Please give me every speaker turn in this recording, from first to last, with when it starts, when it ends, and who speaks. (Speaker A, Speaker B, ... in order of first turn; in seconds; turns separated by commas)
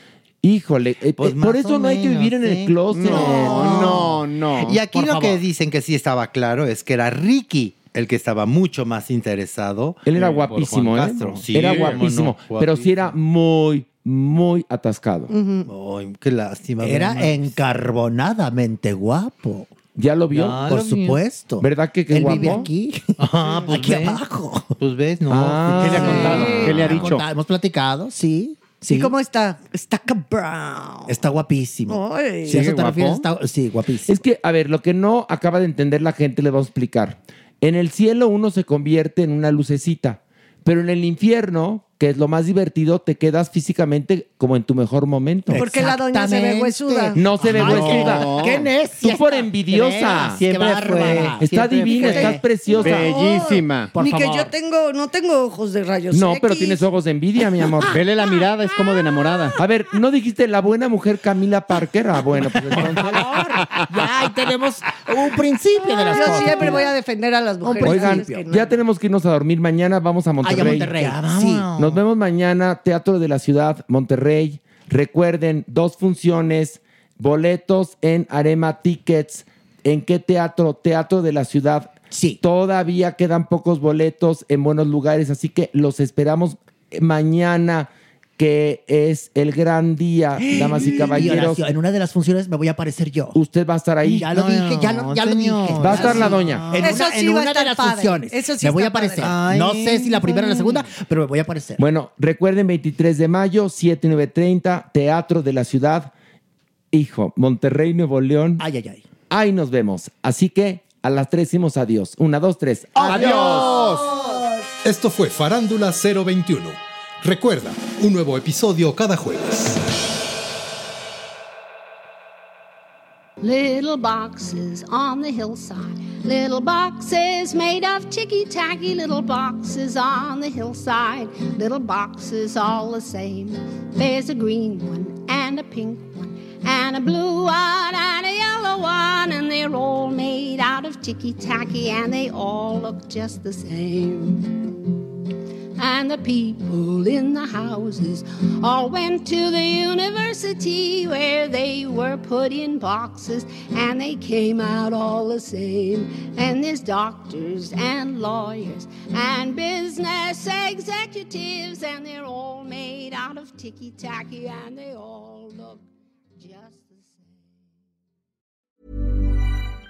Speaker A: 0.4-4.0, Speaker B: 1.2-13.0, Speaker C: 2.9-4.8, Speaker D: 4.9-5.4, Speaker A: 10.0-15.3, Speaker C: 11.5-12.0, Speaker E: 15.3-15.7, Speaker B: 15.7-17.6, Speaker D: 16.8-19.7, Speaker A: 19.9-20.7, Speaker B: 20.3-21.2, Speaker D: 20.6-24.7, Speaker A: 21.6-22.7, Speaker B: 22.2-24.2, Speaker B: 24.8-27.1, Speaker A: 25.3-26.5, Speaker C: 25.8-27.2, Speaker E: 25.9-26.7, Speaker D: 25.9-29.1, Speaker E: 28.9-31.1, Speaker D: 31.1-34.2, Speaker E: 31.9-32.6, Speaker C: 32.5-33.3, Speaker A: 34.1-45.6, Speaker D: 45.5-52.4, Speaker E: 45.5-47.2, Speaker A: 47.1-48.3, Speaker C: 47.6-48.7, Speaker A: 49.0-50.4, Speaker B: 50.4-52.4, Speaker A: 51.4-53.1, Speaker C: 52.8-53.9, Speaker E: 53.0-56.8, Speaker D: 53.9-54.5, Speaker A: 56.1-58.0, Speaker C: 57.9-59.6, Speaker A: 59.6-63.3, Speaker D: 63.0-66.9, Speaker E: 66.0-68.7, Speaker D: 67.6-68.4, Speaker A: 67.8-71.2, Speaker D: 70.4-71.9, Speaker B: 71.2-71.7, Speaker A: 71.7-91.6, Speaker D: 82.1-82.4, Speaker D: 90.4-93.4, Speaker B: 90.8-91.4, Speaker A: 93.3-94.3, Speaker D: 94.0-101.8, Speaker B: 94.3-97.0, Speaker A: 95.8-96.7, Speaker E: 96.8-99.3, Speaker B: 99.2-100.9, Speaker A: 101.8-106.1, Speaker A: 106.9-108.6, Speaker D: 108.6-109.0, Speaker A: 109.3-113.8, Speaker C: 113.1-114.1, Speaker E: 113.1-114.6, Speaker D: 113.2-113.7, Speaker F: 114.8-119.8, Speaker G: 123.4-144.9, Speaker G: 145.8-165.8, Speaker G: 166.4-167.2